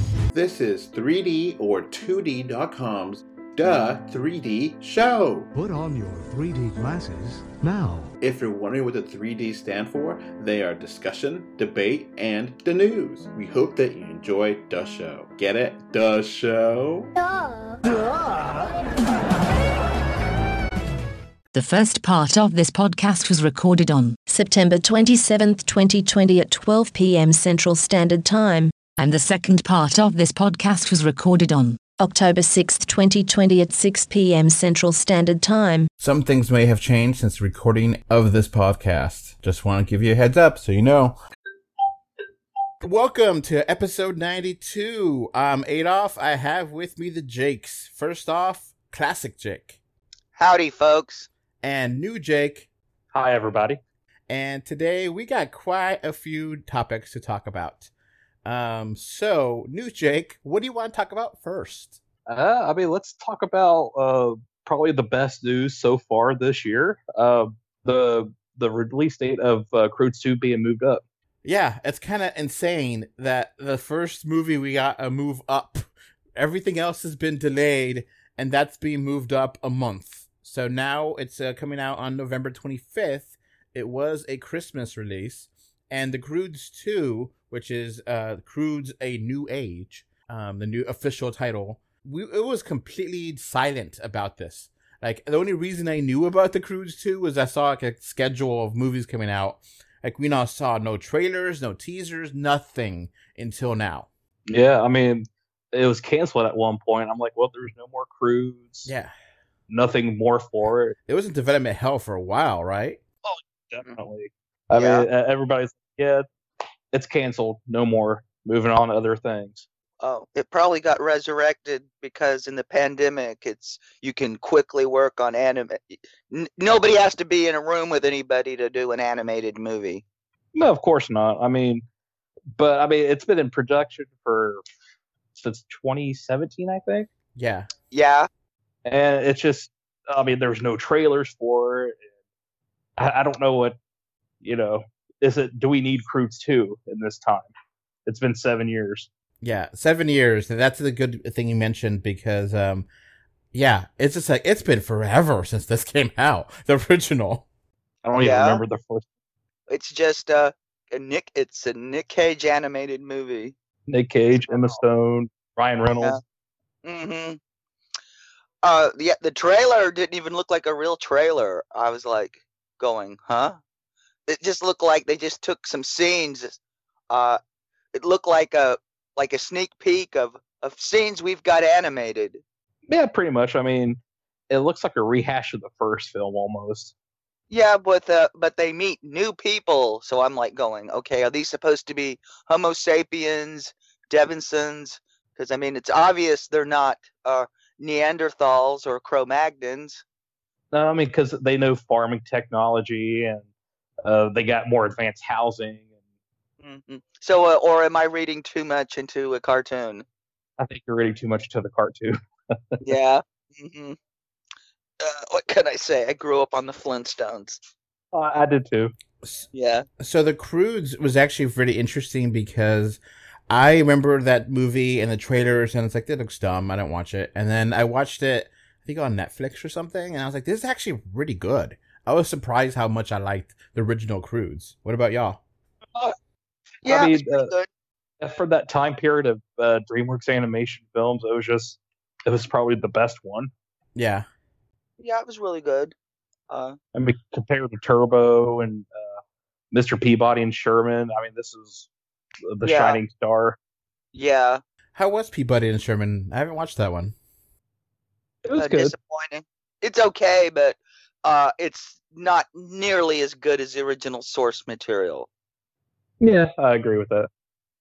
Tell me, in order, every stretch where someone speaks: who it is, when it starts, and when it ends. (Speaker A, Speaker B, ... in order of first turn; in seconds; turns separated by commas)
Speaker A: 0.3-5.5, Speaker B: 5.5-8.1, Speaker A: 8.2-17.1, Speaker C: 21.5-35.9, Speaker A: 36.0-41.1, Speaker A: 42.8-49.8, Speaker D: 50.4-51.3, Speaker A: 51.6-52.7, Speaker E: 53.1-53.8, Speaker A: 54.3-57.9, Speaker A: 58.4-62.0, Speaker E: 62.3-71.0, Speaker A: 71.4-104.1, Speaker E: 104.5-108.9, Speaker A: 108.8-109.1, Speaker E: 109.7-110.9, Speaker A: 111.1-113.0, Speaker E: 113.2-116.2, Speaker D: 114.8-115.0, Speaker E: 116.9-119.7, Speaker D: 120.0-130.0, Speaker E: 130.5-131.8, Speaker E: 132.6-134.6, Speaker E: 135.3-137.1, Speaker A: 137.3-137.7, Speaker D: 137.9-138.3, Speaker E: 138.8-142.0, Speaker E: 143.0-143.8, Speaker E: 144.4-147.5, Speaker E: 148.1-149.1, Speaker A: 149.4-152.9, Speaker A: 153.5-157.4, Speaker E: 158.0-159.1, Speaker D: 158.2-158.6, Speaker D: 159.7-163.5, Speaker E: 163.9-166.2, Speaker D: 164.4-164.8, Speaker D: 166.8-167.4, Speaker D: 168.6-173.6, Speaker D: 174.3-176.6, Speaker D: 177.1-177.4, Speaker D: 177.9-182.4, Speaker E: 182.9-184.0, Speaker E: 184.5-186.9, Speaker D: 187.5-200.0, Speaker E: 200.7-203.5, Speaker E: 204.0-205.9, Speaker D: 206.6-210.0, Speaker E: 210.6-212.2, Speaker D: 212.8-214.0, Speaker D: 215.0-217.6, Speaker E: 218.1-218.9, Speaker A: 219.2-219.5, Speaker D: 219.5-219.8, Speaker A: 220.0-235.4, Speaker E: 236.8-237.5, Speaker D: 236.8-237.7, Speaker E: 238.2-243.5, Speaker A: 243.9-244.2, Speaker D: 245.0-245.9, Speaker D: 246.5-246.8, Speaker E: 246.9-249.2, Speaker E: 249.7-251.9, Speaker E: 252.5-253.6, Speaker D: 252.6-253.0, Speaker D: 254.1-254.6, Speaker A: 254.9-257.1, Speaker E: 258.4-258.9, Speaker D: 258.6-265.3, Speaker E: 266.2-267.3